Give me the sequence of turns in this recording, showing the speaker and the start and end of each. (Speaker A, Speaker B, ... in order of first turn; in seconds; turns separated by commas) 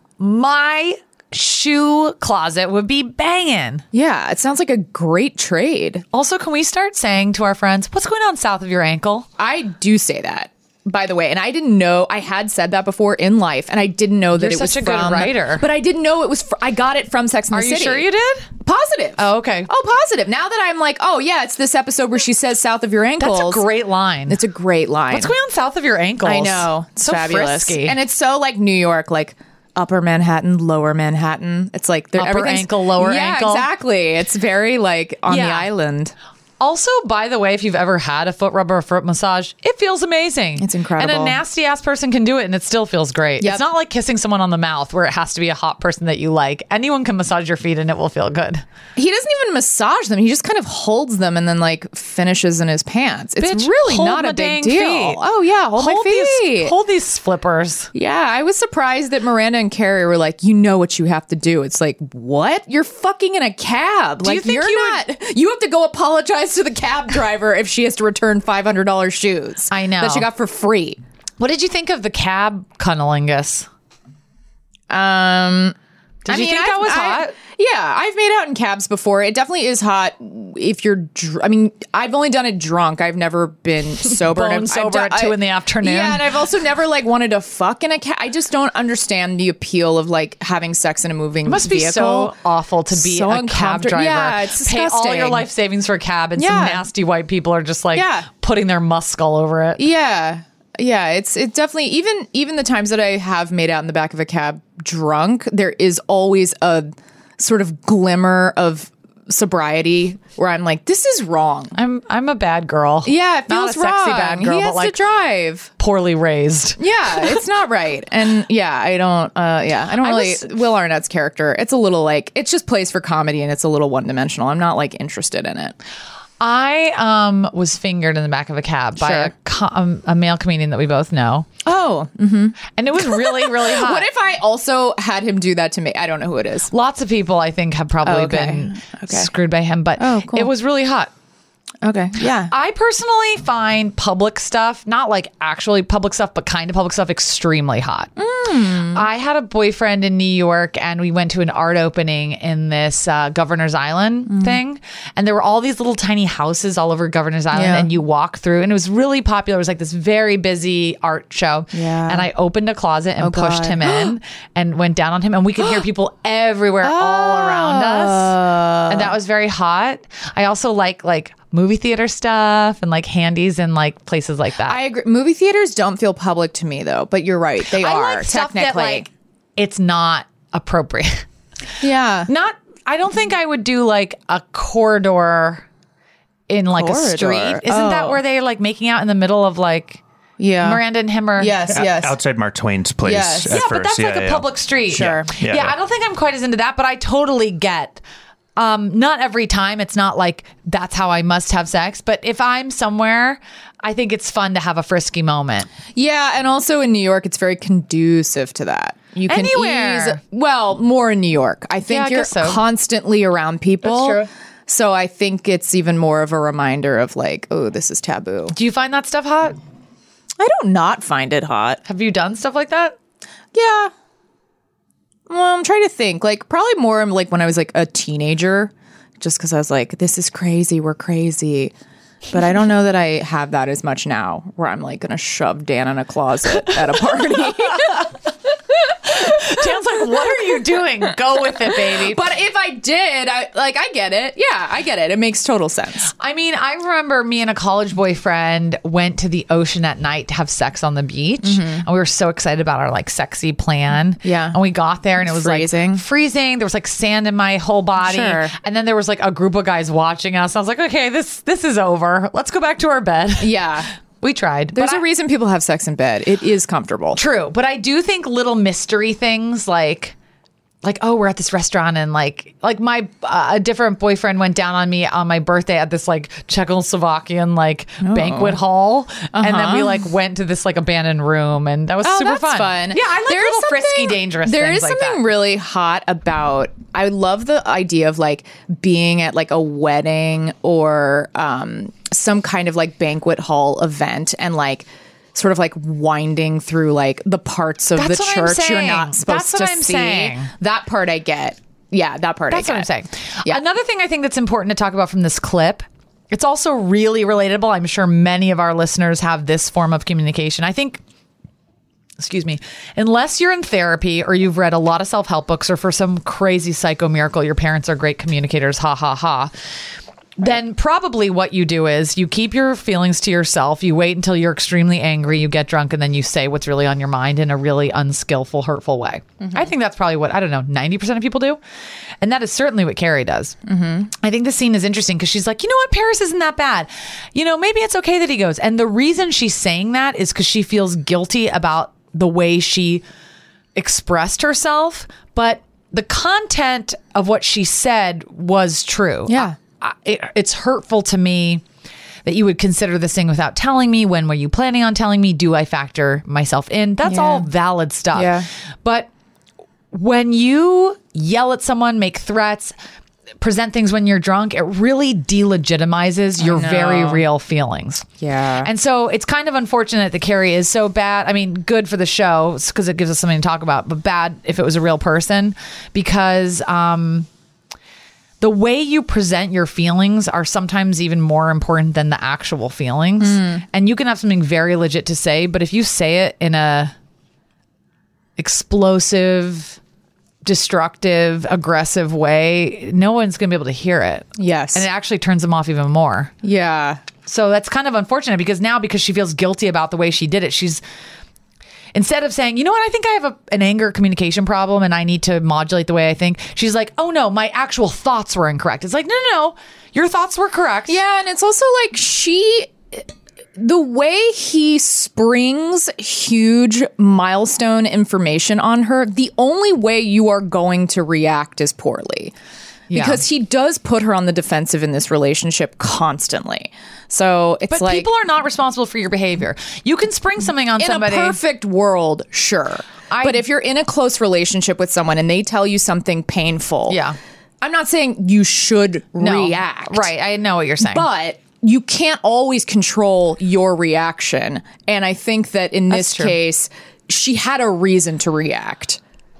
Speaker A: 0.2-3.8, Speaker B: 3.9-6.0, Speaker A: 6.1-9.3, Speaker B: 9.4-18.1, Speaker A: 14.3-15.6, Speaker A: 17.5-18.5, Speaker B: 18.6-23.7, Speaker A: 19.2-19.7, Speaker A: 23.2-24.4, Speaker B: 24.3-25.3, Speaker A: 25.1-28.0, Speaker B: 26.2-36.1, Speaker A: 32.1-33.7, Speaker A: 35.3-35.7, Speaker A: 36.6-48.6, Speaker B: 40.6-41.4, Speaker B: 49.0-56.7, Speaker A: 53.4-55.2, Speaker A: 55.8-57.9, Speaker B: 57.9-71.0, Speaker A: 64.2-65.0, Speaker A: 69.7-70.3, Speaker A: 71.4-73.7, Speaker B: 74.9-75.8, Speaker A: 76.2-77.3, Speaker B: 76.3-92.3, Speaker A: 84.1-86.3, Speaker A: 91.4-99.8, Speaker B: 92.9-95.5, Speaker B: 96.4-96.8, Speaker B: 97.9-98.3, Speaker B: 99.8-111.8, Speaker A: 111.7-115.0, Speaker B: 113.0-115.7, Speaker A: 115.8-117.3, Speaker B: 116.8-125.8, Speaker A: 120.0-120.5, Speaker A: 126.4-131.5, Speaker B: 129.0-129.3, Speaker B: 131.6-136.7, Speaker A: 132.8-134.1, Speaker A: 136.7-141.1, Speaker B: 138.0-139.3, Speaker B: 140.0-140.5, Speaker B: 141.8-142.5, Speaker A: 142.5-148.1, Speaker B: 148.2-149.0, Speaker A: 148.9-174.8, Speaker B: 154.3-154.6, Speaker B: 157.5-157.9, Speaker B: 161.7-162.3, Speaker B: 163.2-164.2, Speaker B: 166.8-169.1, Speaker B: 174.6-179.1, Speaker A: 177.8-181.2, Speaker B: 181.8-182.3, Speaker A: 182.3-185.6, Speaker A: 186.5-190.0, Speaker B: 186.7-188.2, Speaker B: 190.4-190.8, Speaker A: 190.6-191.6, Speaker B: 191.4-192.2, Speaker C: 191.7-195.8, Speaker B: 193.0-193.7, Speaker A: 193.5-198.0, Speaker B: 194.9-195.3, Speaker A: 198.6-205.7, Speaker B: 205.9-218.5, Speaker A: 209.2-210.2, Speaker A: 211.8-212.6, Speaker A: 213.8-214.3, Speaker A: 218.5-219.6, Speaker B: 220.4-221.8, Speaker A: 221.8-222.9, Speaker B: 223.5-223.9, Speaker B: 225.3-231.7, Speaker B: 232.3-238.1, Speaker A: 239.1-242.2, Speaker B: 241.8-246.1, Speaker A: 246.2-263.6, Speaker B: 251.4-251.8, Speaker B: 254.2-254.6, Speaker B: 255.2-256.0, Speaker B: 258.0-258.5, Speaker B: 263.4-263.9, Speaker A: 264.2-265.0, Speaker B: 264.7-267.2, Speaker A: 267.1-270.1, Speaker A: 270.8-285.3, Speaker B: 278.0-278.6, Speaker B: 279.3-280.0, Speaker B: 282.0-302.9, Speaker A: 297.9-300.5, Speaker A: 302.5-311.0, Speaker A: 312.2-319.5, Speaker A: 320.4-331.6, Speaker A: 332.2-333.6, Speaker B: 333.7-334.1, Speaker A: 334.2-343.0, Speaker A: 343.7-351.6, Speaker B: 349.3-349.6, Speaker A: 352.2-359.1, Speaker B: 357.0-357.5, Speaker B: 358.1-358.5, Speaker A: 359.9-362.7, Speaker A: 363.4-368.1, Speaker B: 366.4-367.2, Speaker B: 368.2-368.7, Speaker A: 368.6-377.3, Speaker A: 378.4-386.9, Speaker B: 383.2-383.6, Speaker A: 388.4-389.8, Speaker A: 390.4-396.3, Speaker B: 394.4-394.9, Speaker B: 396.4-397.0, Speaker A: 397.2-400.8, Speaker A: 401.9-411.0, Speaker B: 410.9-413.0, Speaker B: 413.6-422.3, Speaker A: 422.9-423.2, Speaker B: 422.9-428.1, Speaker A: 427.7-431.4, Speaker B: 430.8-437.0, Speaker A: 433.1-433.4, Speaker A: 436.9-437.2, Speaker B: 437.6-440.1, Speaker A: 439.2-441.1, Speaker B: 440.8-449.0, Speaker A: 445.9-446.4